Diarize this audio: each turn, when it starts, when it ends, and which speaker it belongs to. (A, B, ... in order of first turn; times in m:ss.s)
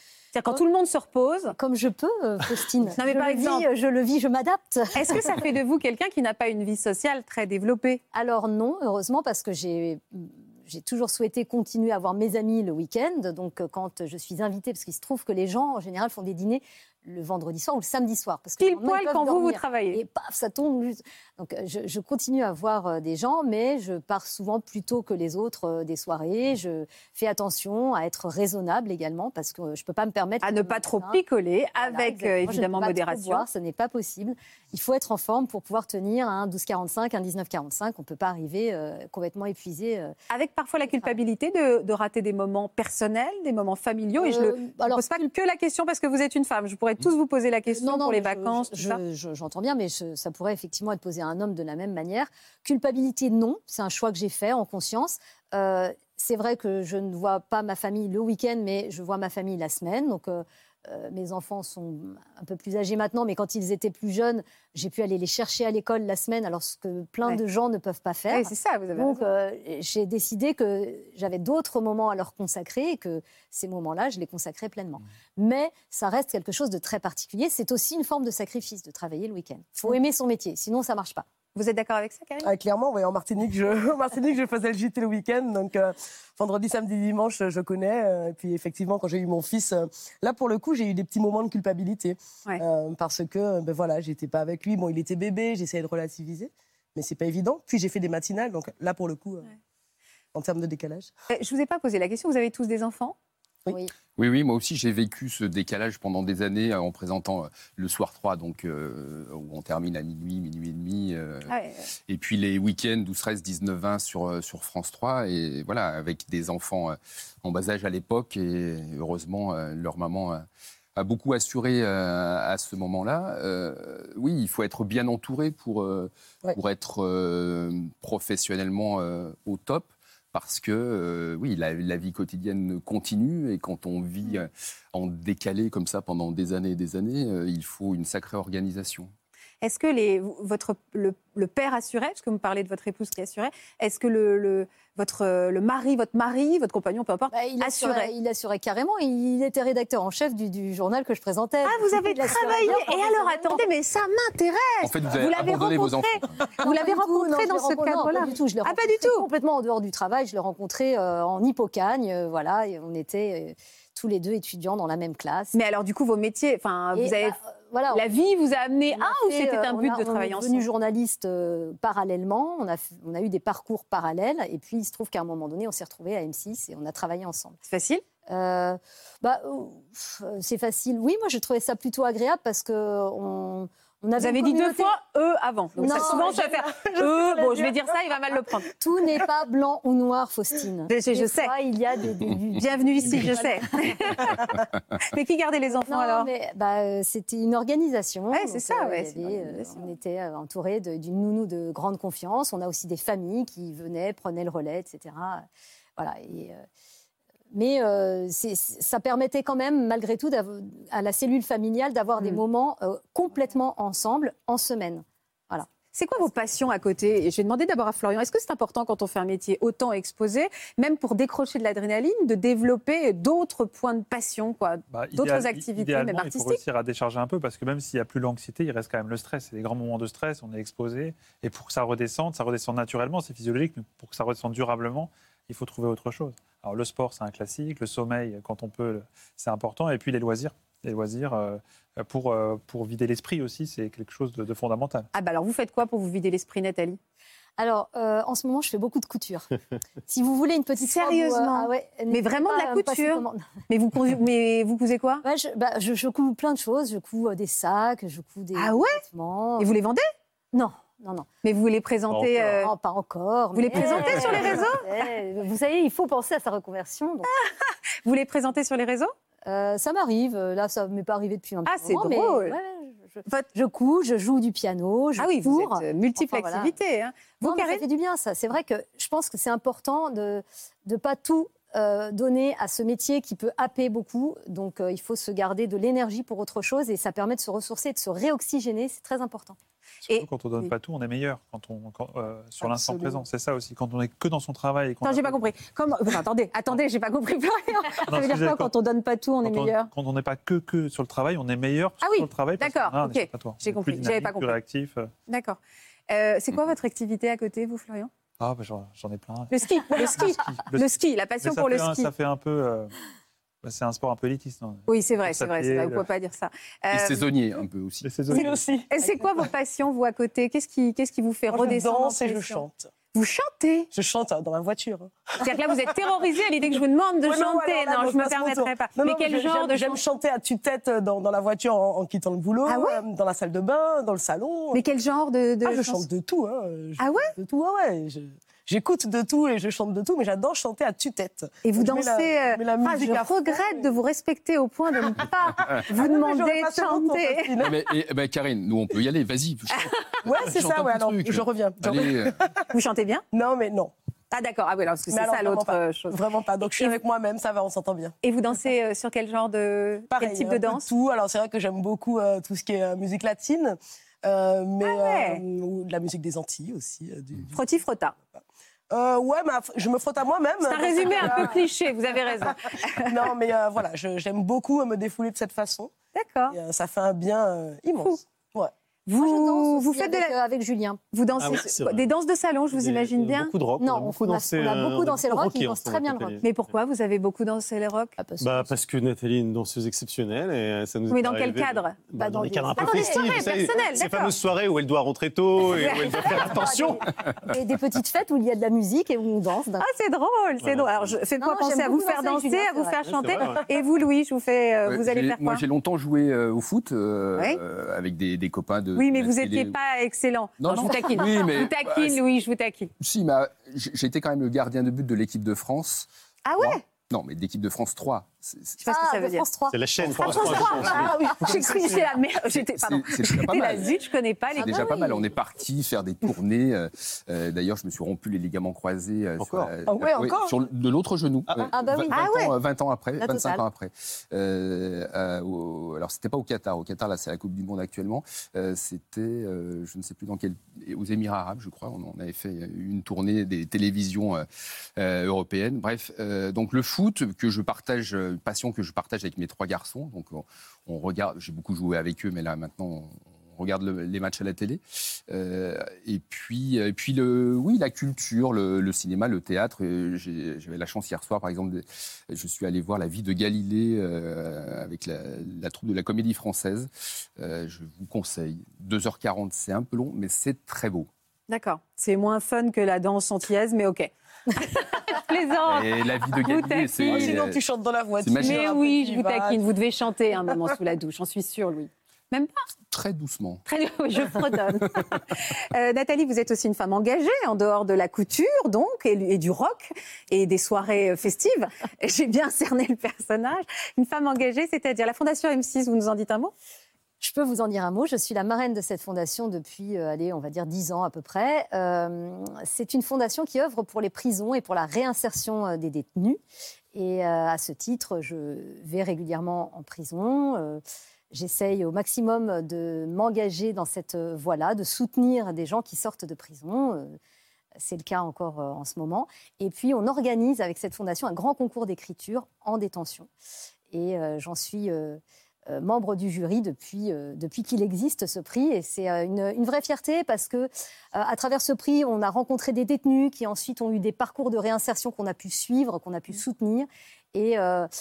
0:00.3-0:01.6 A
0:01.6-0:05.2 B
0:03.0-0:03.7 A
0:04.9-0:08.0 A
0:08.1-0:31.2 B
0:18.6-0:20.0 A
0:30.4-0:33.4 A
0:31.8-0:40.2 B
0:40.3-0:49.0 A
0:44.2-0:45.2 B
0:47.7-1:21.2 B
1:08.3-1:09.2 A
1:21.6-1:22.5 A
1:22.4-1:39.5 C
1:40.3-1:41.1 C
1:41.3-1:43.2 A
1:44.2-1:51.6 D
1:51.5-1:51.8 A
1:52.1-2:00.4 D
2:01.0-2:19.1 D
2:19.6-2:28.1 A
2:27.3-2:33.6 B
2:31.6-2:39.3 A
2:34.8-2:36.3 D
2:36.6-2:45.5 B
2:45.5-2:47.4 A
2:47.0-2:48.1 B
2:47.9-2:50.6 A
2:48.9-2:57.6 B
2:57.7-2:58.0 A
2:58.3-3:05.0 B
3:04.2-3:08.7 A
3:05.8-3:06.5 B
3:05.8-3:07.7 C
3:08.8-3:14.0 B
3:10.9-3:11.5 A
3:12.6-3:14.4 A
3:15.0-3:16.3 A
3:15.9-3:25.5 B
3:18.3-3:19.9 A
3:26.0-3:26.6 B
3:27.5-3:35.7 B
3:35.9-3:46.6 A
3:44.9-4:05.1 E
4:05.1-4:07.0 A
4:07.6-4:09.5 B
4:10.1-4:13.5 B
4:10.8-4:15.2 A
4:15.2-4:19.7 B
4:18.6-4:19.0 A
4:19.6-4:20.1 A
4:20.5-4:21.3 B
4:21.4-4:22.7 A
4:22.1-4:22.6 F
4:22.6-4:27.3 B
4:23.5-4:24.9 A
4:23.8-4:24.6 F
4:27.3-4:29.1 A
4:29.5-4:36.7 B
4:31.7-4:32.6 A
4:35.2-4:37.8 A
4:37.4-4:49.6 B
4:50.1-4:55.5 E
4:52.6-4:53.2 C
4:55.0-4:59.9 A
4:58.1-4:58.7 E
4:59.4-5:05.1 E
5:02.0-5:04.6 A
5:05.3-5:08.1 A
5:08.4-5:12.9 E
5:09.5-5:12.1 A
5:13.6-5:16.0 E
5:14.9-5:17.2 A
5:16.9-5:18.1 D
5:18.0-5:18.6 E
5:18.3-5:23.9 A
5:18.3-5:19.1 C
5:21.5-5:22.9 C
5:23.9-5:25.4 C
5:25.4-5:30.0 A
5:27.2-5:34.8 C
5:32.7-5:33.0 A
5:34.7-5:36.0 A
5:35.6-5:43.9 C
5:37.0-5:37.3 A
5:41.6-5:47.5 A
5:45.7-5:47.8 C
5:47.6-5:52.4 D
5:50.2-5:52.6 C
5:52.7-5:53.2 A
5:53.3-5:53.9 C
5:54.3-5:56.2 A
5:55.1-5:58.2 C
5:58.2-6:00.9 A
6:00.1-6:07.6 C
6:04.8-6:05.4 A
6:07.5-6:08.2 A
6:08.9-6:11.7 C
6:10.6-6:13.1 A
6:12.4-6:15.9 C
6:16.2-6:16.6 A
6:16.5-6:18.7 C
6:19.1-6:20.4 A
6:19.2-6:21.0 B
6:21.1-6:23.5 A
6:21.4-6:22.1 F
6:22.7-6:26.4 F
6:23.8-6:26.4 B
6:26.4-6:28.2 A
6:28.2-6:28.7 B
6:28.4-6:37.0 F
6:31.1-6:32.0 A
6:32.2-6:33.7 B
6:32.8-6:34.3 A
6:35.7-6:36.4 A
6:35.8-6:39.9 B
6:39.8-6:45.6 A
6:40.6-6:41.1 F
6:41.4-6:43.0 B
6:43.1-6:43.6 F
6:44.9-6:49.8 D
6:49.0-6:52.9 A
6:50.6-6:52.2 D
6:53.0-6:56.1 D
6:56.5-6:56.8 A
6:56.6-6:58.8 D
6:58.8-7:01.7 B
6:58.8-6:59.4 A
6:59.7-7:01.8 F
7:00.2-7:05.2 A
7:00.3-7:01.6 C
7:02.5-7:03.9 D
7:04.6-7:05.2 B
7:04.6-7:51.1 D
7:09.4-7:09.7 F
7:09.9-7:10.5 C
7:11.7-7:12.5 B
7:12.1-7:12.5 A
7:13.2-7:13.6 B
7:51.5-7:57.4 A
7:55.6-7:57.6 D
7:57.0-7:59.6 C
7:58.2-7:58.7 D
7:58.4-8:02.6 A
8:02.9-8:03.6 D
8:03.7-8:16.5 A
8:04.3-8:05.0 D
8:17.2-8:26.4 B
8:26.9-8:37.2 B
8:37.8-8:43.3 B
8:43.9-8:57.9 B